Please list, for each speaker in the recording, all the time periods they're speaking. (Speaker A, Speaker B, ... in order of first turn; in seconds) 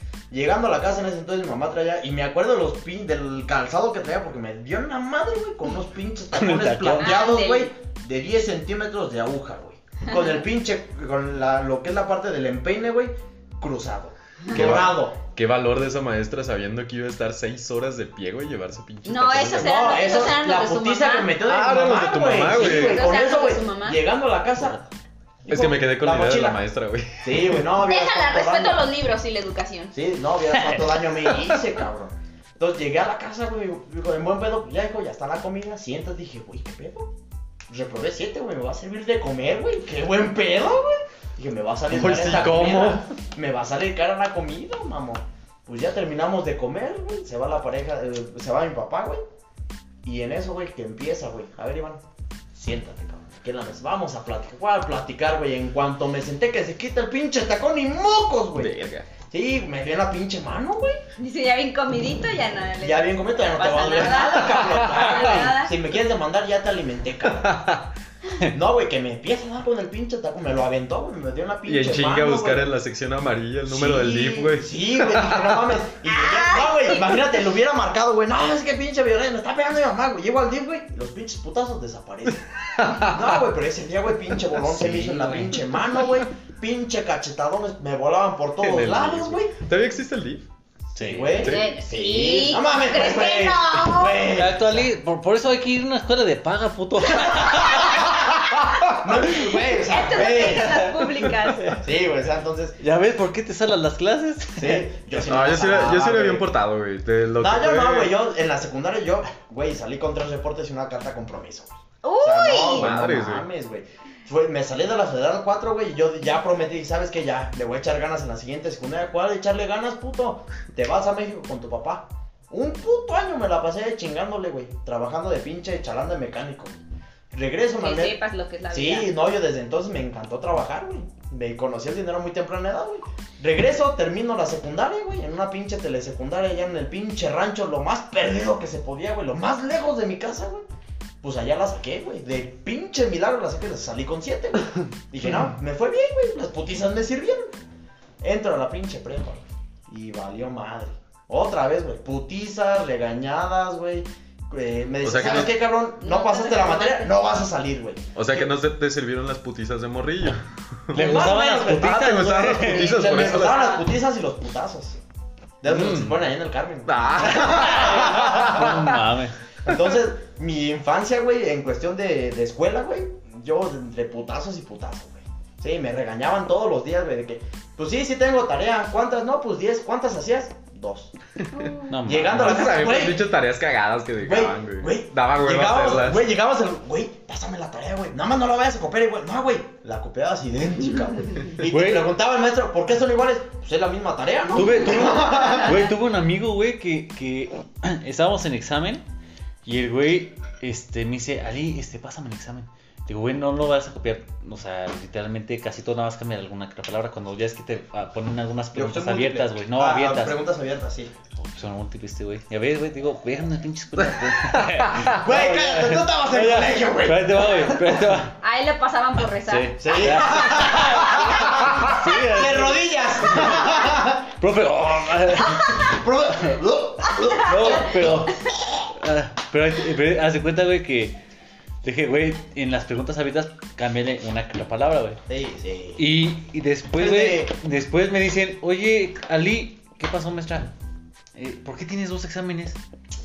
Speaker A: 0.3-15.2, 19.5-24.9, 25.4-26.6, 27.2-28.9, 29.9-37.1, 37.7-49.2, 50.0-52.0, 52.5-58.7, 59.3-61.0, 62.8-67.5, 68.4-72.7, 73.7-82.5, 83.0-89.5, 91.0-94.9, 97.4-101.1, 101.8-102.8, 104.6-106.5, 107.4-126.8, 127.3-128.2, 128.7-140.6, 141.2-147.4, 148.2-158.5, 160.9-165.0, 165.6-168.9, 169.6-181.1, 182.0-183.3, 184.2-195.9, 208.7-211.1, 215.1-217.9, 219.8-224.2, 225.6-228.3, 235.3-236.1, 236.9-237.5
Speaker B: 6.3-7.2, 30.5-31.4, 84.7-85.7, 90.9-91.5, 94.3-98.2, 100.2-101.8, 102.8-104.9, 160.9-163.2, 167.4-169.4, 181.9-182.8, 191.6-192.1, 194.5-199.0, 199.6-210.4, 211.4-218.4, 219.4-225.9, 227.4-228.4, 228.9-231.2, 231.8-235.2, 235.9-240.7, 241.3-242.8
Speaker C: 7.0-7.7, 19.0-21.4, 22.5-24.0, 27.8-29.9, 61.2-65.7, 76.1-77.1, 91.4-94.3, 99.7-101.8, 112.0-112.9, 127.8-129.1, 156.0-157.3, 163.3-163.8, 181.5-182.0, 218.4-220.4, 227.1-228.2
Speaker D: 14.5-19.9, 21.4-23.1, 25.5-27.6, 41.9-43.0, 58.5-59.1, 64.3-65.5, 67.4-67.9, 71.7-75.6, 82.8-83.4, 88.6-90.5, 91.4-91.7, 105.1-108.1, 112.7-113.5, 155.0-155.6, 158.1-163.7, 165.7-166.2, 166.8-169.0, 182.3-186.2, 214.6-215.1